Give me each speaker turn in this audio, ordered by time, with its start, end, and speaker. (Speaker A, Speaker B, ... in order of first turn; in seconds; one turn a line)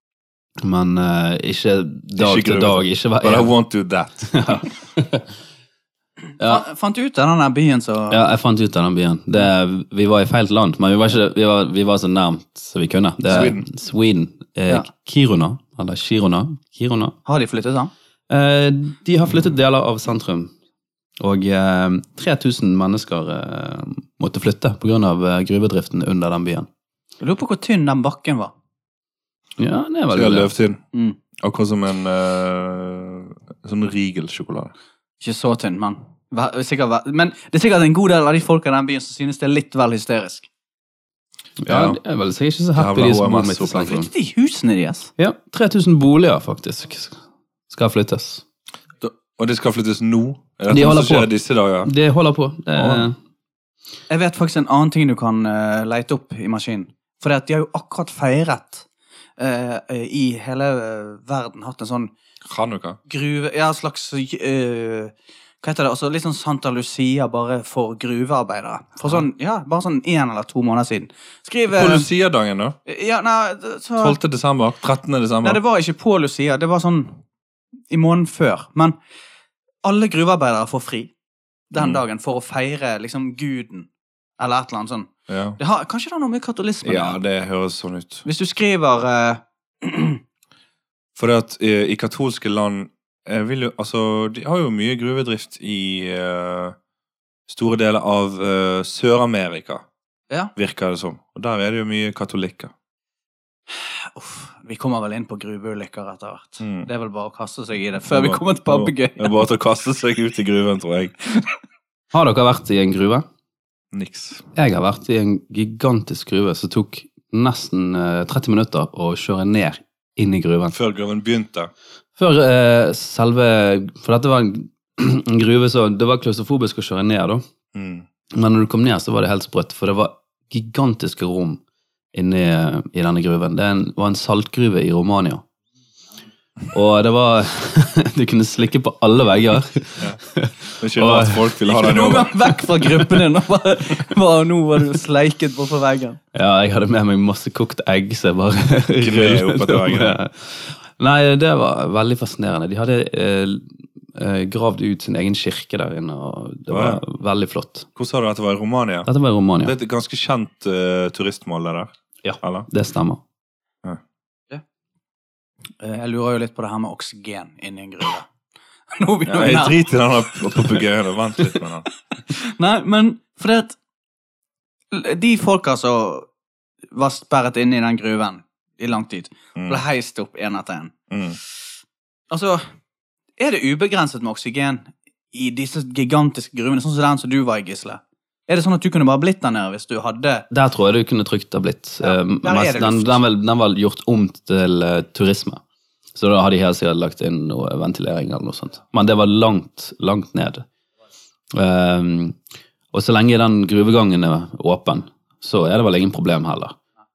Speaker A: 0.6-3.5
Speaker B: 2.2-4.7
Speaker A: 4.3-5.3
Speaker C: 6.4-8.2
Speaker A: 8.1-17.1
Speaker B: 13.3-13.7
Speaker C: 17.3-17.9
Speaker A: 18.3-20.5
Speaker A: 21.2-26.7
Speaker C: 27.2-28.5
Speaker A: 29.6-30.5
Speaker B: 30.1-30.8
Speaker B: 31.4-34.7
Speaker C: 35.2-40.5
Speaker A: 41.6-44.1
Speaker B: 41.7-42.0
Speaker B: 42.8-44.0
Speaker C: 43.8-45.1
Speaker A: 45.2-47.2
Speaker A: 47.7-48.4
Speaker B: 49.0-51.9
Speaker A: 50.7-51.3
Speaker A: 51.9-53.1
Speaker B: 52.8-53.1
Speaker C: 54.1-58.9
Speaker C: 59.4-62.1
Speaker B: 62.5-63.0
Speaker C: 63.1-72.1
Speaker B: 71.7-72.8
Speaker C: 72.9-74.2
Speaker B: 74.0-75.6
Speaker C: 75.4-77.2
Speaker C: 77.9-79.0
Speaker C: 79.8-81.1
Speaker C: 81.7-83.9
Speaker B: 81.8-82.0
Speaker C: 84.4-87.2
Speaker B: 85.3-85.6
Speaker B: 86.8-88.2
Speaker C: 88.2-90.2
Speaker B: 91.2-96.8
Speaker B: 97.5-99.8
Speaker B: 100.6-102.7
Speaker C: 104.1-109.4
Speaker B: 106.6-106.9
Speaker B: 108.1-111.1
Speaker A: 112.1-113.2
Speaker B: 113.9-114.5
Speaker A: 114.5-120.8
Speaker B: 120.7-121.7
Speaker A: 122.2-127.4
Speaker B: 127.7-128.1
Speaker A: 128.3-131.6
Speaker A: 132.1-135.4
Speaker A: 136.7-141.5
Speaker B: 140.8-142.4
Speaker C: 141.7-146.2
Speaker A: 146.3-157.9
Speaker B: 149.0-150.2
Speaker B: 156.7-157.0
Speaker B: 158.0-159.1
Speaker A: 159.1-159.7
Speaker B: 159.6-161.9
Speaker A: 162.2-163.2
Speaker B: 162.4-162.7
Speaker C: 165.8-168.3
Speaker C: 168.9-169.8
Speaker B: 169.3-171.9
Speaker C: 172.3-173.8
Speaker C: 174.9-176.3
Speaker C: 176.9-180.9
Speaker B: 179.6-179.8
Speaker B: 181.1-181.4
Speaker C: 182.3-182.6
Speaker C: 183.4-190.5
Speaker A: 190.5-195.6
Speaker C: 192.0-193.2
Speaker A: 196.2-200.7
Speaker A: 201.5-202.4
Speaker A: 202.9-206.8